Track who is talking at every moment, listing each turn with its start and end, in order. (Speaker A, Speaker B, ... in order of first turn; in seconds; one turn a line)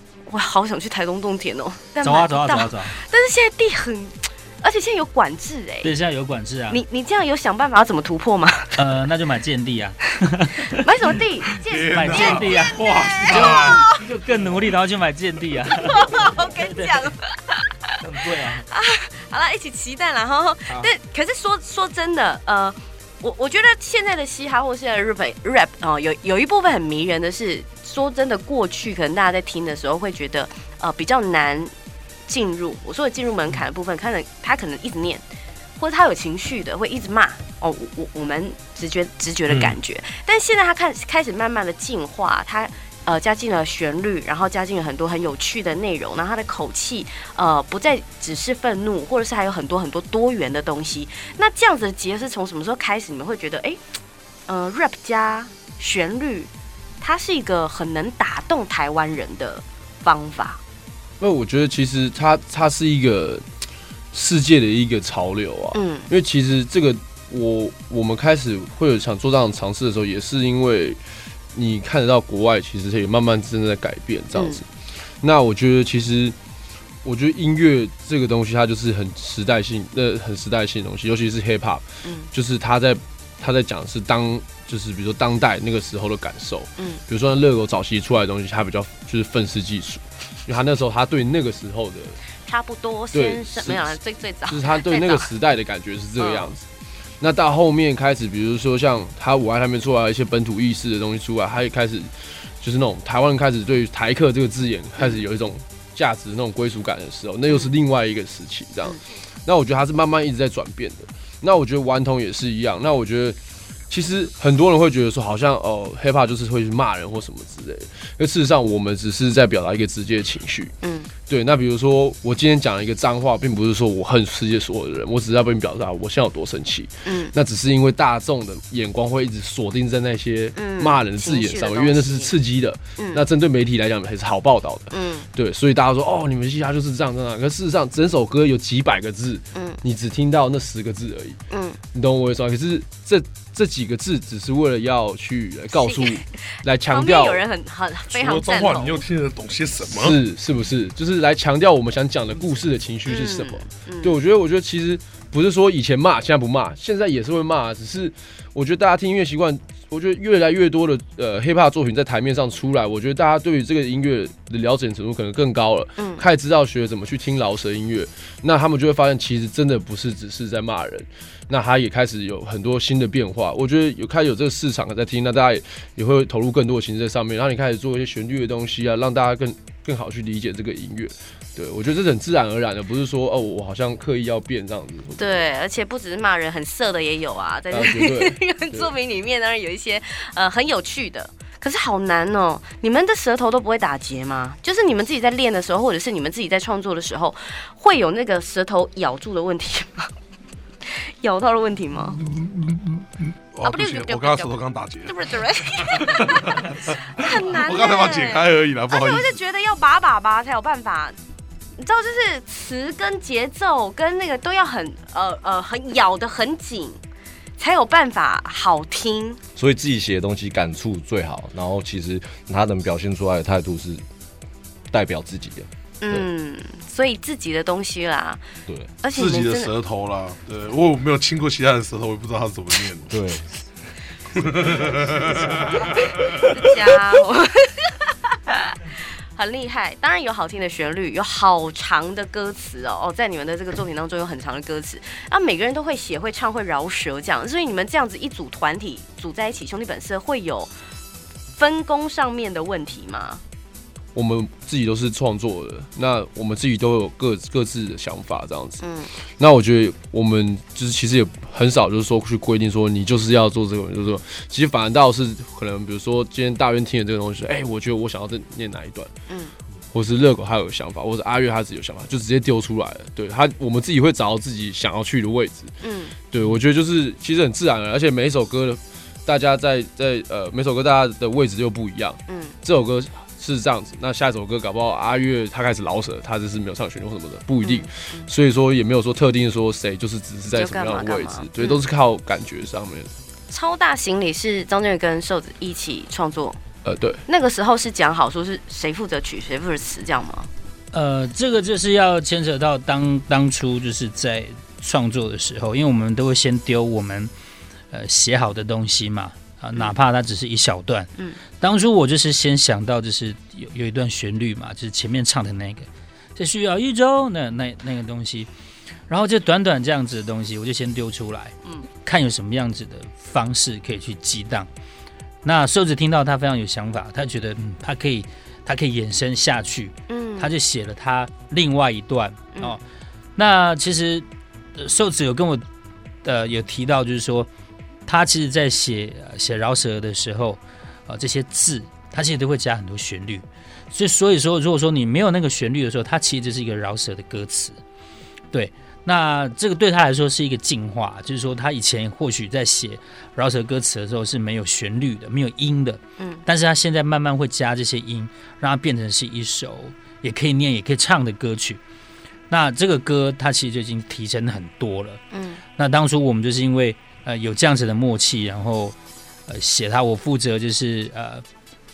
Speaker A: 0.3-5.9
Speaker B: 2.0-3.0
Speaker B: 5.8-6.8
Speaker A: 6.7-8.8
Speaker B: 8.8-10.8
Speaker A: 10.8-14.0
Speaker C: 11.6-13.9
Speaker B: 11.9-17.0
Speaker A: 15.8-17.6
Speaker B: 18.0-18.7
Speaker A: 18.7-31.7
Speaker A: 32.3-35.2
Speaker A: 35.8-53.8
Speaker C: 39.5-39.8
Speaker A: 54.5-56.5
Speaker A: 57.0-60.6
Speaker D: 61.2-63.5
Speaker D: 64.1-71.0
Speaker A: 65.7-66.1
Speaker D: 71.5-74.7
Speaker A: 74.3-74.6
Speaker D: 75.2-76.3
Speaker D: 77.0-92.2
Speaker A: 92.5-95.3
Speaker D: 93.1-94.0
Speaker D: 94.5-96.7
Speaker A: 96.2-96.5
Speaker D: 97.2-113.4
Speaker A: 105.0-105.2
Speaker A: 107.5-107.8
Speaker D: 113.9-120.8
Speaker A: 120.8-121.1
Speaker D: 121.3-141.4
Speaker A: 127.0-127.3
Speaker A: 130.6-132.3
Speaker A: 133.0-133.2
Speaker A: 134.9-135.3
Speaker A: 139.5-139.8
Speaker A: 141.5-141.8
Speaker D: 141.9-147.4
Speaker A: 145.7-149.0
Speaker C: 148.1-150.2
Speaker D: 149.9-185.5
Speaker A: 153.1-154.2
Speaker A: 166.0-166.2
Speaker A: 185.2-200.1
Speaker D: 187.7-188.9
Speaker A: 200.8-202.2
Speaker C: 202.2-209.3
Speaker A: 203.6-211.2
Speaker A: 211.8-217.0
Speaker A: 217.6-219.4
Speaker E: 219.6-224.1
Speaker E: 224.9-226.3
Speaker A: 226.0-228.4
Speaker A: 229.0-229.7
Speaker C: 229.1-233.2
Speaker E: 233.1-233.4
Speaker C: 234.4-236.2
Speaker E: 234.9-235.5
Speaker A: 236.6-237.9
Speaker A: 238.5-250.7
Speaker A: 251.6-253.4
Speaker D: 254.2-269.1
Speaker A: 258.8-259.1
Speaker D: 269.9-275.8
Speaker A: 275.8-276.1
Speaker D: 276.3-293.1
Speaker A: 282.3-282.6
Speaker A: 287.6-288.3
Speaker A: 290.5-291.8
Speaker A: 293.5-296.6
Speaker D: 296.9-297.2
Speaker A: 297.3-300.5
Speaker B: 300.9-307.3
Speaker B: 307.9-318.5
Speaker B: 319.1-324.7
Speaker B: 325.4-332.8
Speaker A: 330.1-330.5
Speaker B: 333.4-335.6
Speaker B: 336.2-337.5
Speaker B: 338.1-347.8
Speaker B: 348.5-361.8
Speaker A: 356.2-356.4
Speaker B: 362.5-365.2
Speaker A: 365.3-365.6
Speaker B: 365.8-369.0
Speaker B: 369.5-371.4